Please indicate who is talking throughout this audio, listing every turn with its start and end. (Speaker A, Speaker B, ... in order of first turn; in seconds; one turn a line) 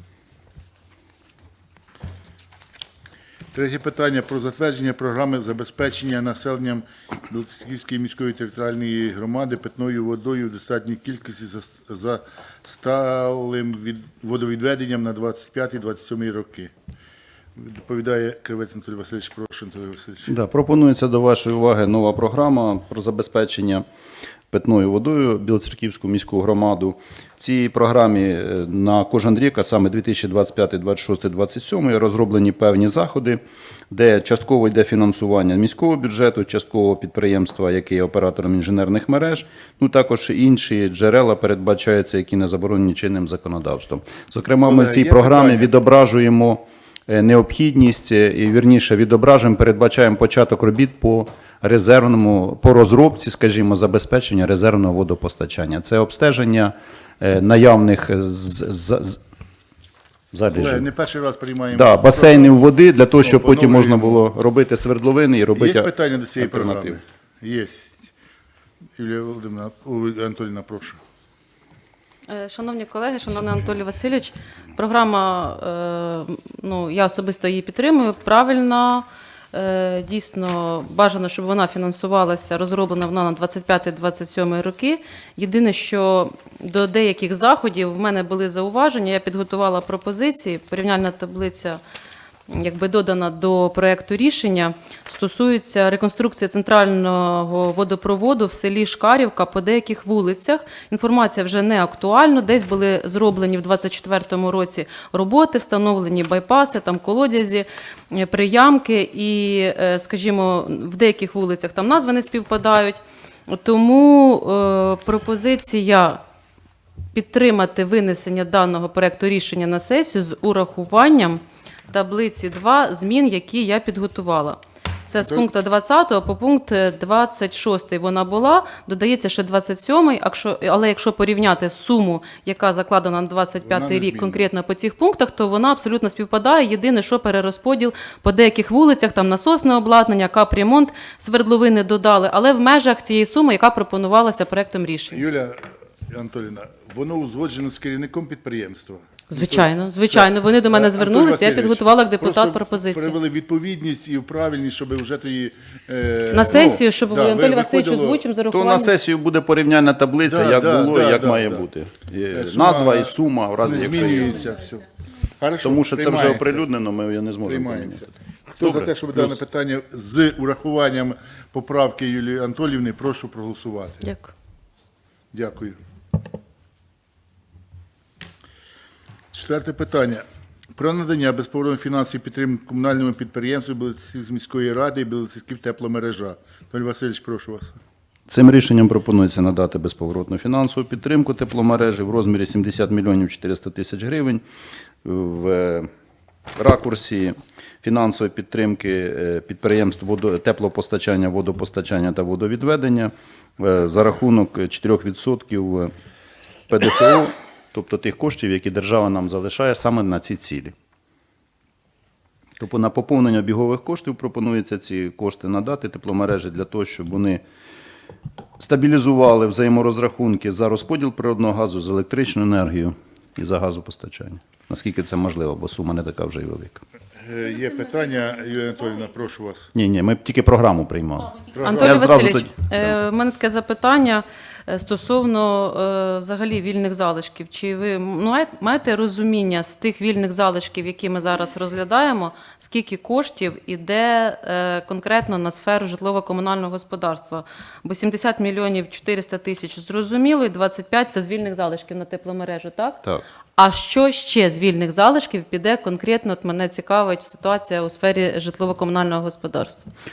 Speaker A: 3.5-16.7
Speaker A: 17.6-20.3
Speaker B: 20.3-23.9
Speaker B: 24.5-59.2
Speaker A: 44.6-45.7
Speaker B: 60.3-60.9
Speaker A: 60.5-62.7
Speaker B: 61.7-67.0
Speaker A: 63.2-64.2
Speaker A: 65.5-68.0
Speaker A: 69.0-71.0
Speaker C: 72.3-91.8
Speaker C: 92.5-116.2
Speaker C: 117.1-145.2
Speaker A: 125.2-125.5
Speaker A: 133.7-134.5
Speaker A: 145.1-158.2
Speaker C: 149.3-153.2
Speaker C: 156.3-158.9
Speaker B: 156.5-156.8
Speaker B: 158.5-164.4
Speaker A: 160.2-161.7
Speaker A: 162.3-164.9
Speaker A: 165.4-166.7
Speaker B: 165.6-169.4
Speaker A: 167.4-174.1
Speaker C: 174.0-174.3
Speaker A: 175.3-175.8
Speaker A: 179.3-187.8
Speaker B: 188.3-194.4
Speaker B: 195.0-195.9
Speaker B: 196.6-205.9
Speaker B: 206.7-210.7
Speaker B: 212.6-217.4
Speaker B: 218.6-226.8
Speaker A: 227.2-229.7
Speaker B: 229.7-233.0
Speaker A: 231.5-232.1
Speaker C: 231.6-253.0
Speaker C: 253.6-259.9